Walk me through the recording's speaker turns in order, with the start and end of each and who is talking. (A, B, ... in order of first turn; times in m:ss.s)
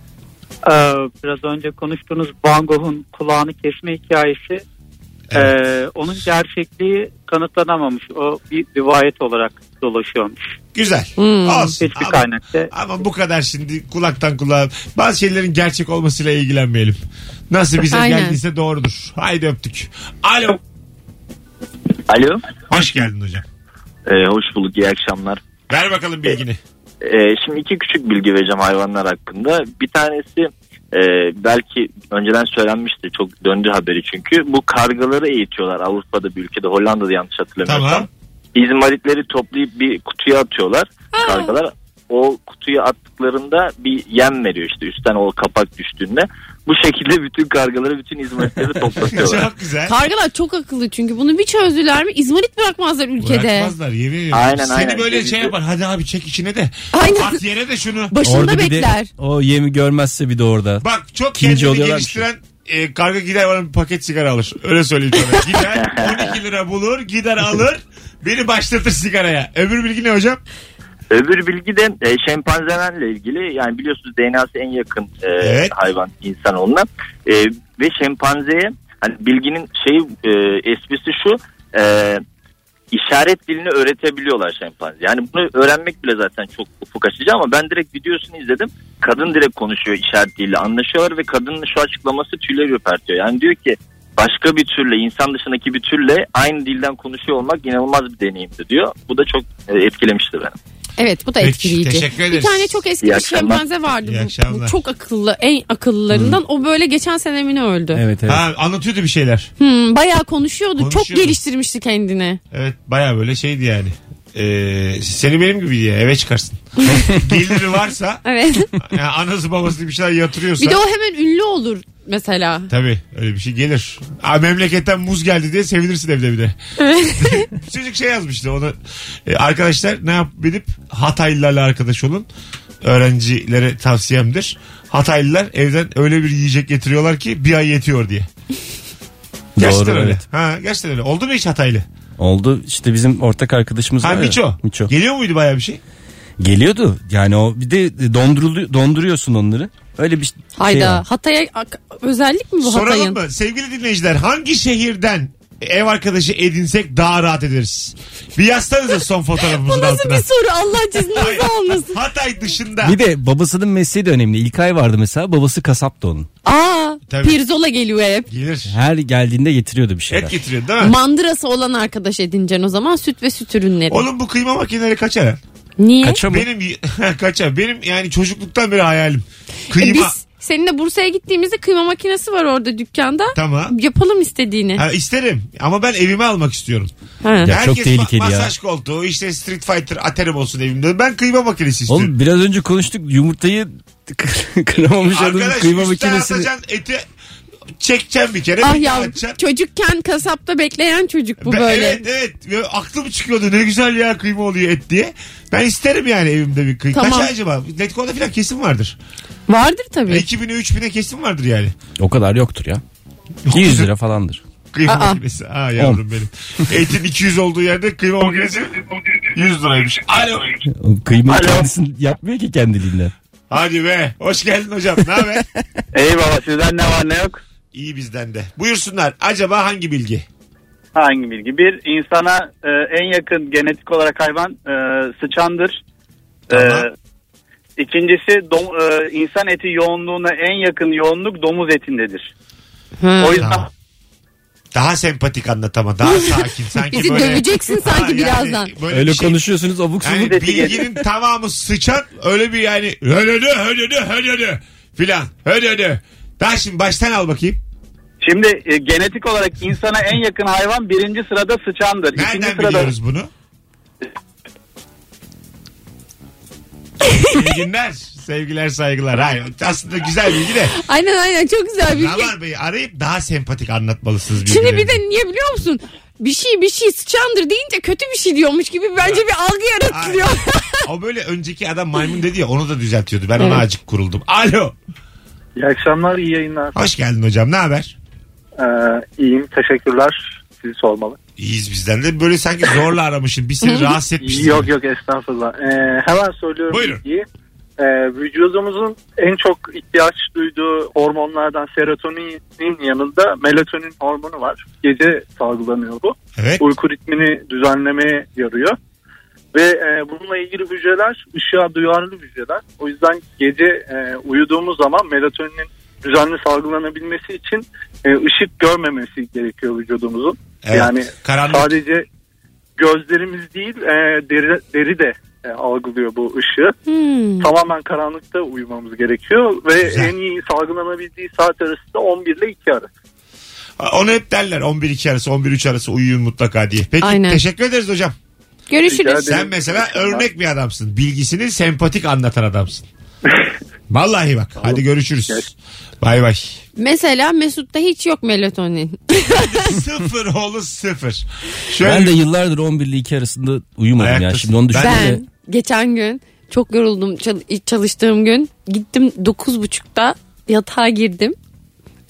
0:00.6-0:04.6 A
0:05.3-0:10.3 A
0:10.7-0:20.6 B
0:11.2-0:11.7 C
0:11.7-0:12.7 A
0:17.9-0:18.4 C
0:22.1-0:22.4 D
0:22.7-0:23.4 B
0:24.1-0:25.4 D
0:25.7-0:26.6 B
0:27.0-0:49.5 D
0:37.6-0:38.1 B
0:41.2-0:41.5 C
0:49.1-0:50.0 B
0:49.8-0:53.7 C
0:53.2-0:58.1 B
0:54.3-0:55.5 D
0:56.9-0:57.4 C
0:58.1-0:59.1 C
0:58.2-1:00.8 E
1:00.8-1:10.4 B
1:01.4-1:02.2 E
1:05.8-1:06.3 D
1:11.1-1:22.2 D
1:15.4-1:15.7 B
1:22.9-1:40.5 D
1:41.0-1:48.0 C
1:41.4-1:42.8 B
1:43.0-1:43.6 D
1:44.0-1:44.8 B
1:46.1-1:46.4 E
1:47.9-1:48.4 E
1:48.3-1:49.5 B
1:49.6-1:52.4 C
1:50.8-1:51.4 B
1:52.5-1:58.2 B
1:58.2-1:58.8 C
1:58.8-2:00.8 B
2:00.6-2:02.7 C
2:02.7-2:06.5 B
2:06.8-2:07.4 C
2:07.2-2:12.3 B
2:12.8-2:18.3 B
2:19.6-2:20.2 E
2:19.6-2:21.8 B
2:22.2-2:24.9 E
2:24.0-2:25.8 B
2:26.4-2:31.0 E
2:30.6-2:33.2 C
2:32.6-2:40.2 B
2:39.5-2:42.0 C
2:41.1-2:43.0 B
2:42.8-2:46.3 E
2:46.4-2:48.3 C
2:47.1-2:47.4 B
2:48.3-2:48.7 B
2:48.7-2:50.3 E
2:50.1-2:51.0 B
2:50.8-2:54.0 C
2:53.9-2:55.4 B
2:55.8-2:56.2 C
2:56.0-2:56.4 E
2:56.2-3:00.1 B
2:59.7-3:04.8 C
3:03.3-3:03.7 B
3:04.8-3:06.9 B
3:07.2-3:07.5 C
3:07.4-3:08.5 E
3:07.4-3:12.1 B
3:11.9-3:16.5 E
3:15.1-3:17.0 B
3:17.8-3:19.4 B
3:18.6-3:22.0 C
3:21.4-3:29.0 B
3:26.9-3:27.3 C
3:29.5-3:30.2 C
3:30.1-3:31.7 B
3:32.0-3:32.8 E
3:33.5-3:33.9 B
3:33.5-3:34.4 E
3:34.7-3:40.6 B
3:34.9-3:35.2 C
3:40.8-3:43.1 E
3:41.3-3:41.6 F
3:43.5-3:45.4 B
3:45.9-3:47.4 F
3:47.7-3:50.2 B
3:50.9-3:55.8 F
3:56.5-3:56.9 F
3:56.5-3:56.8 B
3:57.8-4:02.3 F
4:03.0-4:03.5 C
4:03.2-4:03.6 F
4:03.4-4:03.7 B
4:04.7-4:09.4 B
4:06.9-4:08.7 C
4:08.9-4:10.8 E
4:10.0-4:17.6 B
4:10.4-4:10.8 F
4:18.2-4:22.9 F
4:22.1-4:23.3 B
4:27.0-4:27.4 C
4:27.3-4:30.8 B
4:30.8-4:32.3 C
4:31.9-4:35.0 B
4:34.4-4:40.8 C
4:39.9-4:44.7 B
4:43.4-4:43.6 C
4:45.6-4:46.9 G
4:46.7-4:48.0 B
4:48.6-4:51.2 G
4:51.4-4:54.7 B
4:53.6-4:53.9 C
4:54.2-4:57.2 G
4:56.7-4:57.0 B
4:57.8-5:08.8 G
5:06.3-5:06.7 B
5:09.5-5:22.0 G
5:20.6-5:21.8 B
5:22.8-5:26.8 G
5:26.9-5:27.5 C
5:27.4-5:32.9 G
5:29.8-5:30.1 B
5:33.8-5:38.1 B
5:37.0-5:37.4 C
5:38.7-5:39.4 C
5:38.8-5:40.2 G
5:39.1-5:42.9 B
5:43.9-5:46.6 B
5:44.6-5:45.5 G
5:46.8-5:49.8 C
5:49.3-5:52.2 B
5:51.8-5:55.2 E
5:54.0-5:55.1 B
5:54.7-6:01.4 C